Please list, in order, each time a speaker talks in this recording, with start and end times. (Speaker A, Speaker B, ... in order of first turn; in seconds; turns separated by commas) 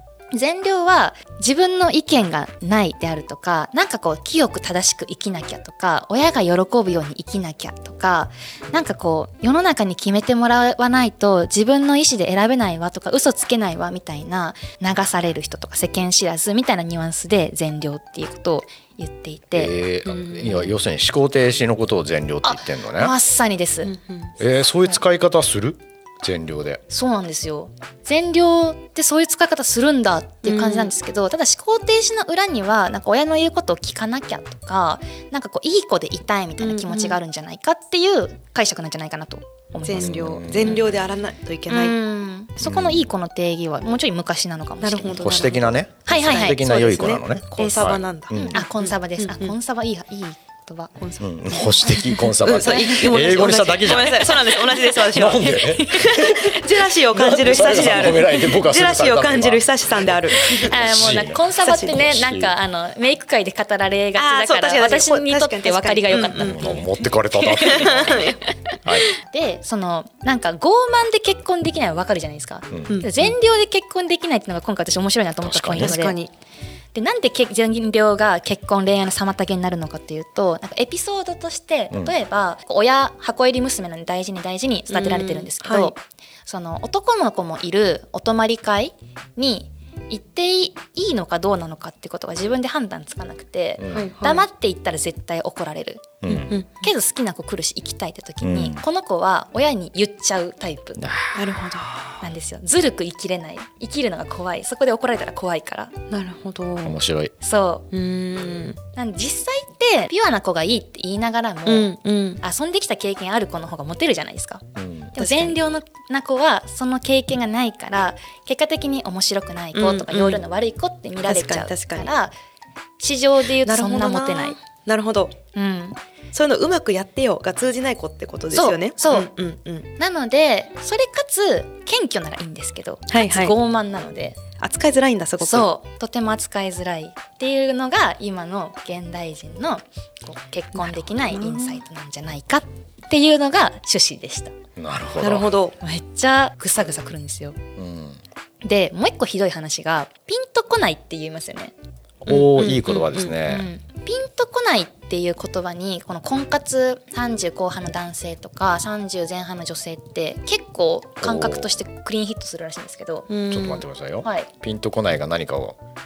Speaker A: 0.3-19.7, Speaker B: 19.5-23.1, Speaker C: 20.1-20.7, Speaker A: 22.4-23.9, Speaker C: 23.8-24.3, Speaker B: 24.4-26.8, Speaker A: 26.9-40.9, Speaker C: 30.4-30.9, Speaker C: 36.6-37.2, Speaker C: 39.8-42.0, Speaker B: 40.0-40.8, Speaker A: 41.7-45.5, Speaker B: 42.6-43.1, Speaker C: 44.8-49.5, Speaker B: 45.2-48.6, Speaker A: 46.1-46.6, Speaker A: 48.4-50.9, Speaker C: 51.0-60.8, Speaker B: 51.2-54.5, Speaker A: 52.6-53.2, Speaker B: 55.0-62.5, Speaker A: 55.6-56.2, Speaker A: 60.5-66.8, Speaker C: 61.6-62.1, Speaker C: 64.2-66.8, Speaker B: 66.4-69.1, Speaker A: 67.4-68.2, Speaker C: 67.5-68.4, Speaker A: 69.1-76.2, Speaker B: 72.7-73.0, Speaker C: 72.9-73.3, Speaker B: 75.4-76.0, Speaker C: 75.8-76.3, Speaker A: 76.9-96.2, Speaker C: 84.9-85.9, Speaker B: 93.8-94.1, Speaker C: 94.0-94.5, Speaker B: 96.2-96.5, Speaker C: 96.4-96.9, Speaker A: 96.8-101.0, Speaker B: 98.4-98.8, Speaker B: 101.0-101.4, Speaker C: 101.3-102.2, Speaker A: 102.2-105.9, Speaker C: 106.1-107.0, Speaker B: 106.8-107.3, Speaker A: 107.4-107.9, Speaker C: 107.9-108.8, Speaker A: 109.0-114.6, Speaker C: 111.7-112.4, Speaker B: 114.8-115.1, Speaker A: 115.1-122.3, Speaker C: 115.2-115.6, Speaker C: 119.7-120.4, Speaker C: 121.2-122.1, Speaker A: 123.0-124.6, Speaker C: 123.6-125.3, Speaker A: 125.5-126.0, Speaker C: 126.3-129.9, Speaker A: 128.5-129.3, Speaker A: 130.0-134.4, Speaker C: 133.1-133.6, Speaker C: 134.6-135.7, Speaker A: 135.4-144.5, Speaker C: 140.8-141.8, Speaker B: 144.8-145.6, Speaker C: 145.2-145.8, Speaker A: 145.8-147.6, Speaker B: 147.8-148.2, Speaker A: 148.6-151.7, Speaker B: 152.2-153.7, Speaker C: 152.3-153.4, Speaker A: 153.4-163.3, Speaker B: 161.2-161.7, Speaker C: 163.3-163.8, Speaker B: 163.5-165.8, Speaker A: 164.2-164.5